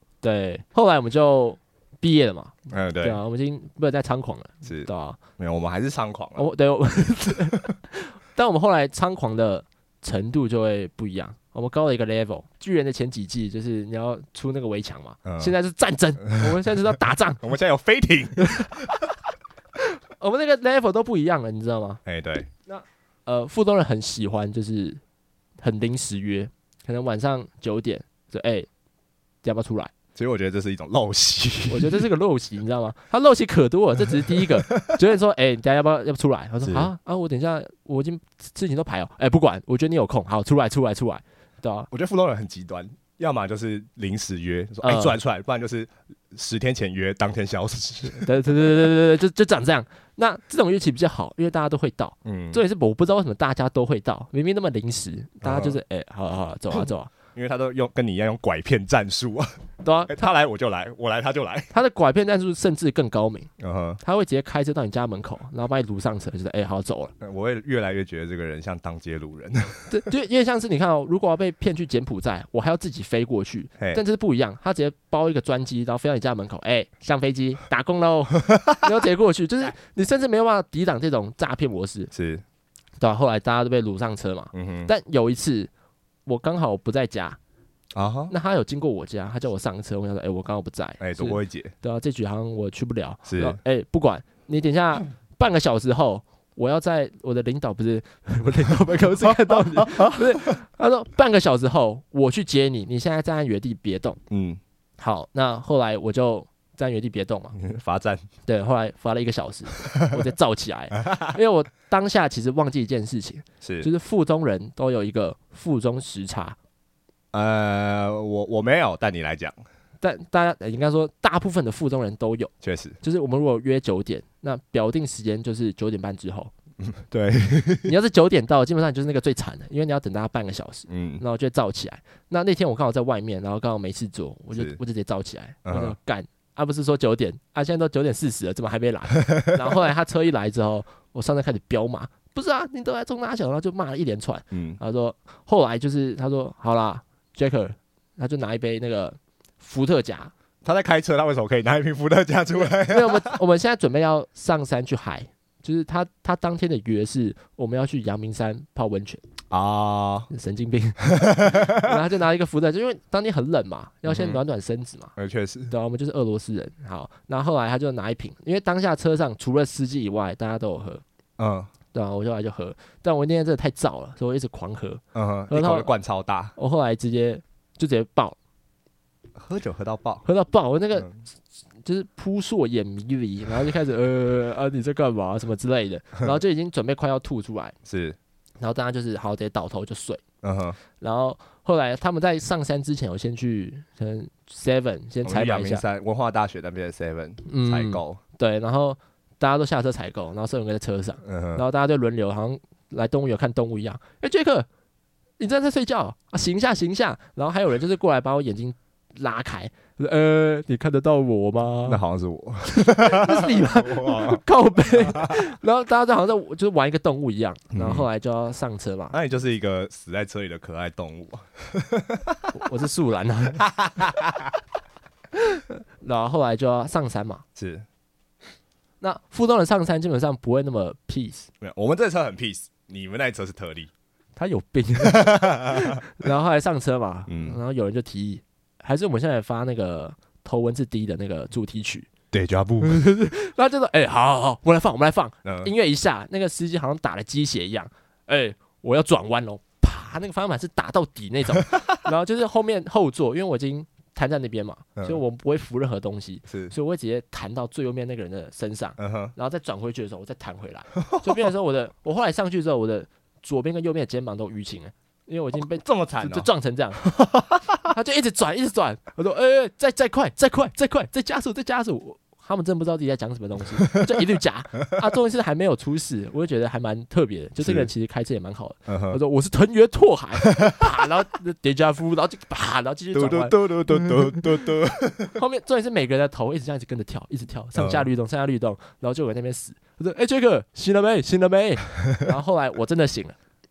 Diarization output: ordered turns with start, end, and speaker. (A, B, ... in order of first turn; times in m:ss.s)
0:00.2-0:05.2 A
0:02.7-0:03.2 B
0:04.6-0:06.5 B
0:06.4-0:17.4 A
0:15.2-0:15.5 B
0:16.2-0:16.7 B
0:17.4-0:18.9 B
0:18.4-0:18.7 A
0:20.2-0:22.0 A
0:22.0-0:22.5 B
0:22.7-0:25.0 A
0:25.6-0:28.7 A
0:29.4-0:29.9 A
0:30.1-0:32.1 B
0:31.7-0:41.9 A
0:34.4-0:34.9 B
0:36.6-0:36.9 B
0:41.9-0:48.4 B
0:44.8-0:45.2 A
0:48.1-0:57.1 A
0:52.2-0:52.6 B
0:55.4-0:55.8 B
0:56.7-0:59.6 B
0:59.8-1:00.3 A
1:00.1-1:01.7 B
1:01.7-1:03.5 A
1:03.6-1:04.0 B
1:04.0-1:07.1 A
1:07.2-1:09.9 B
1:09.9-1:22.1 A
1:22.1-1:22.4 B
1:23.0-1:25.7 A
1:24.5-1:24.9 B
1:26.2-1:27.4 A
1:27.9-1:28.3 B
1:28.3-1:44.2 A
1:31.0-1:31.7 B
1:33.2-1:33.6 B
1:39.2-1:40.4 B
1:44.3-1:44.6 B
1:45.0-1:47.6 A
1:47.5-1:48.2 B
1:48.4-1:56.6 A
1:53.6-1:53.9 B
1:57.3-1:59.6 B
2:00.0-2:06.5 A
2:02.6-2:03.0 B
2:06.8-2:07.9 B
2:07.8-2:30.3 A
2:10.9-2:11.2 B
2:14.5-2:14.8 B
2:15.6-2:16.0 B
2:19.3-2:19.6 B
2:24.5-2:24.8 B
2:30.6-2:33.4 B
2:32.6-2:39.2 A
2:39.5-2:40.3 B
2:40.3-2:45.1 A
2:41.2-2:41.8 B
2:44.0-2:44.4 B
2:45.2-2:45.7 B
2:45.7-2:51.0 A
2:51.4-2:51.7 B
2:51.9-2:55.9 A
2:55.1-2:56.5 B
2:56.6-2:58.4 A
2:59.3-3:00.2 B
3:00.2-3:01.2 A
3:01.8-3:07.7 A
3:07.8-3:08.2 B
3:08.6-3:10.2 A
3:10.4-3:10.8 B
3:11.0-3:15.8 A
3:15.2-3:18.2 B
3:17.4-3:24.7 A
3:21.2-3:21.6 B
3:25.4-3:32.0 A
3:31.8-3:34.4 B
3:32.6-3:39.2 A
3:35.1-3:35.4 B
3:37.7-3:38.1 B
3:39.1-3:42.5 B
3:42.5-3:43.7 A
3:43.6-3:44.5 B
3:45.3-3:47.4 A
3:47.6-3:47.8 B
3:49.0-3:51.5 A
3:51.6-3:53.9 B
3:54.4-4:02.1 A
3:55.0-3:56.0 B
3:57.3-3:57.6 B
4:02.3-4:03.0 B
4:02.8-4:27.0 A
4:05.4-4:05.7 B
4:16.5-4:16.7 B
4:19.0-4:19.3 B
4:21.0-4:21.5 B
4:25.6-4:26.5 B
4:27.2-4:27.8 B
4:27.9-4:44.4 A
4:33.8-4:34.2 B
4:37.6-4:37.9 B
4:38.9-4:39.2 B
4:40.4-4:40.8 B
4:43.1-4:45.4 B
4:45.3-4:53.4 A
4:47.7-4:48.1 B